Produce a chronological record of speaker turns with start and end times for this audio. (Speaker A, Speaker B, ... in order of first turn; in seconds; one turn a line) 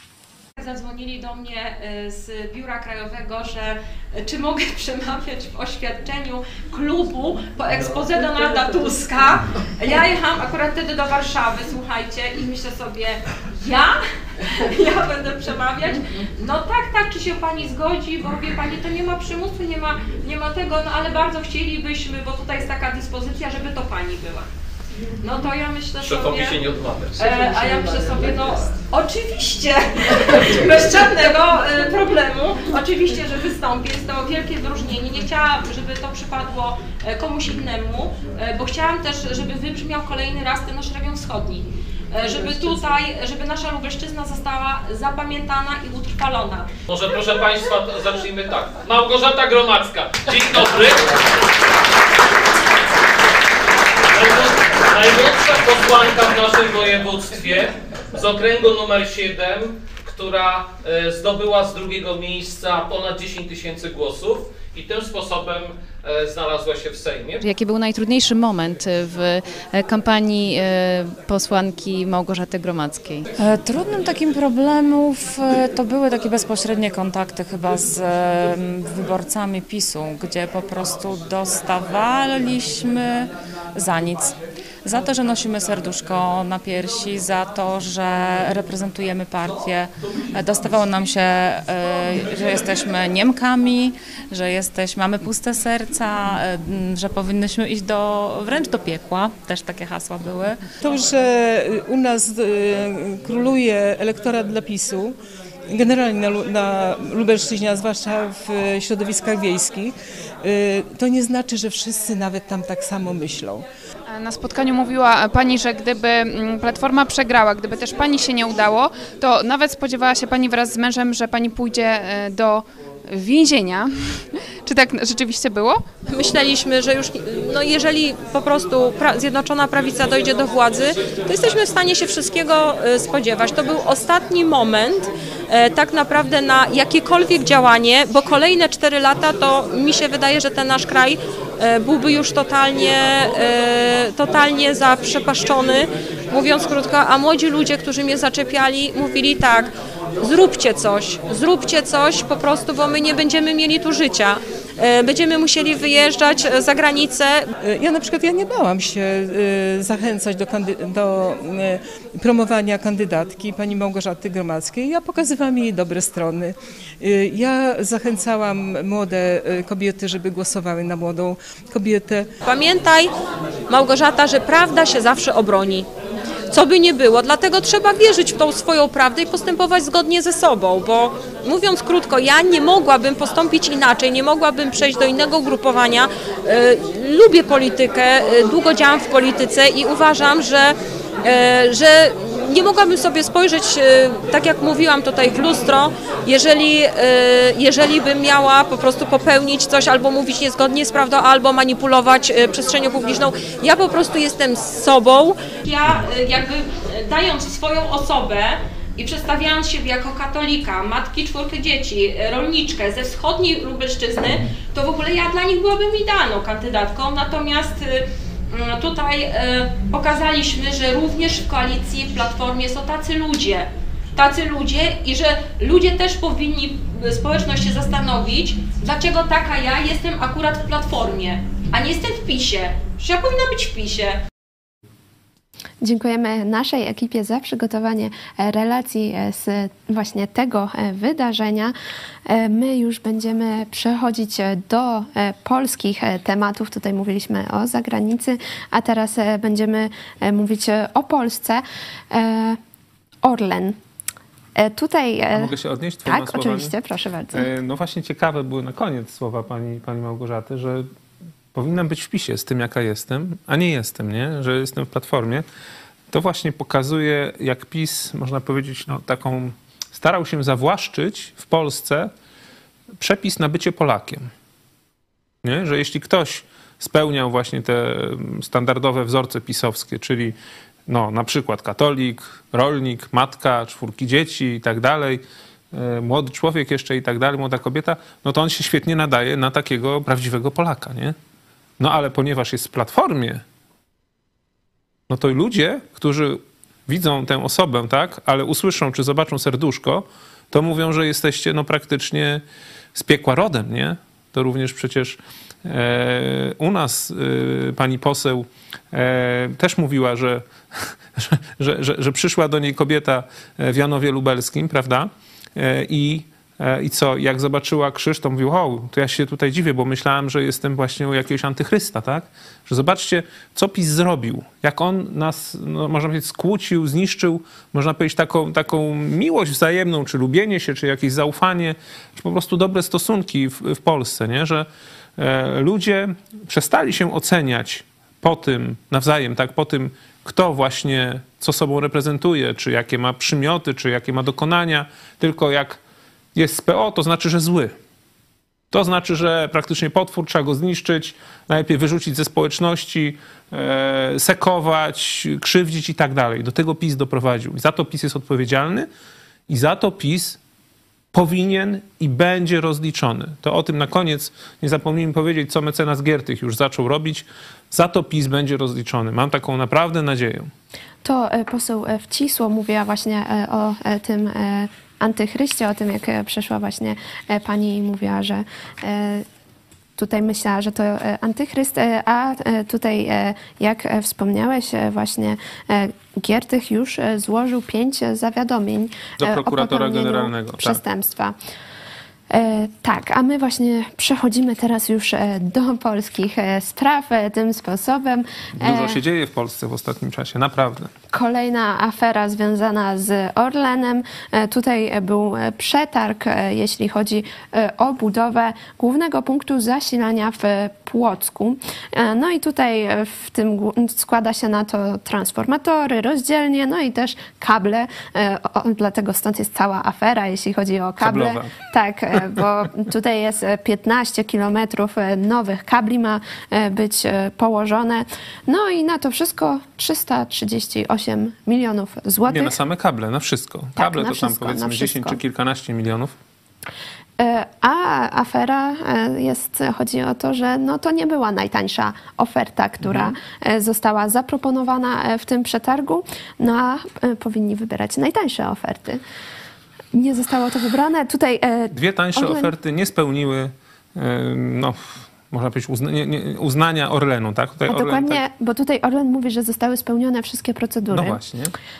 Speaker A: 0.6-24.5
Speaker A: 25.2-26.6
Speaker B: 26.0-27.9
Speaker A: 27.2-46.7
Speaker B: 46.9-51.4
Speaker B: 54.1-67.4
Speaker C: 67.4-73.3
Speaker D: 73.4-100.7
Speaker E: 100.8-105.2
Speaker E: 105.7-113.7
Speaker F: 114.1-125.8
Speaker A: 126.1-157.5
Speaker E: 157.6-172.3
Speaker A: 172.4-173.1
Speaker A: 173.7-175.9
Speaker A: 176.5-234.2
Speaker G: 235.8-241.7
Speaker G: 242.3-252.6
Speaker G: 253.2-253.8
Speaker G: 254.6-255.5
Speaker H: 255.3-256.7
Speaker G: 256.1-257.5
Speaker H: 257.3-260.9
Speaker H: 261.5-265.4
Speaker H: 266.1-272.1
Speaker H: 273.0-274.3
Speaker H: 275.4-280.4
Speaker H: 280.9-291.2
Speaker H: 291.8-293.4
Speaker H: 295.1-302.4
Speaker H: 302.9-345.8
Speaker H: 346.4-347.8
Speaker H: 348.7-358.9
Speaker H: 359.5-360.4
Speaker H: 361.1-370.5
Speaker G: 371.0-379.2
Speaker G: 380.0-391.4
Speaker H: 389.2-390.8
Speaker G: 392.3-399.0
Speaker H: 398.6-400.9
Speaker G: 401.1-432.5
Speaker H: 421.0-421.5
Speaker H: 432.3-436.1
Speaker G: 433.8-435.2
Speaker G: 437.2-449.0
Speaker H: 442.8-443.1
Speaker G: 449.9-452.5
Speaker H: 451.7-458.2
Speaker G: 457.7-461.2
Speaker H: 460.9-461.5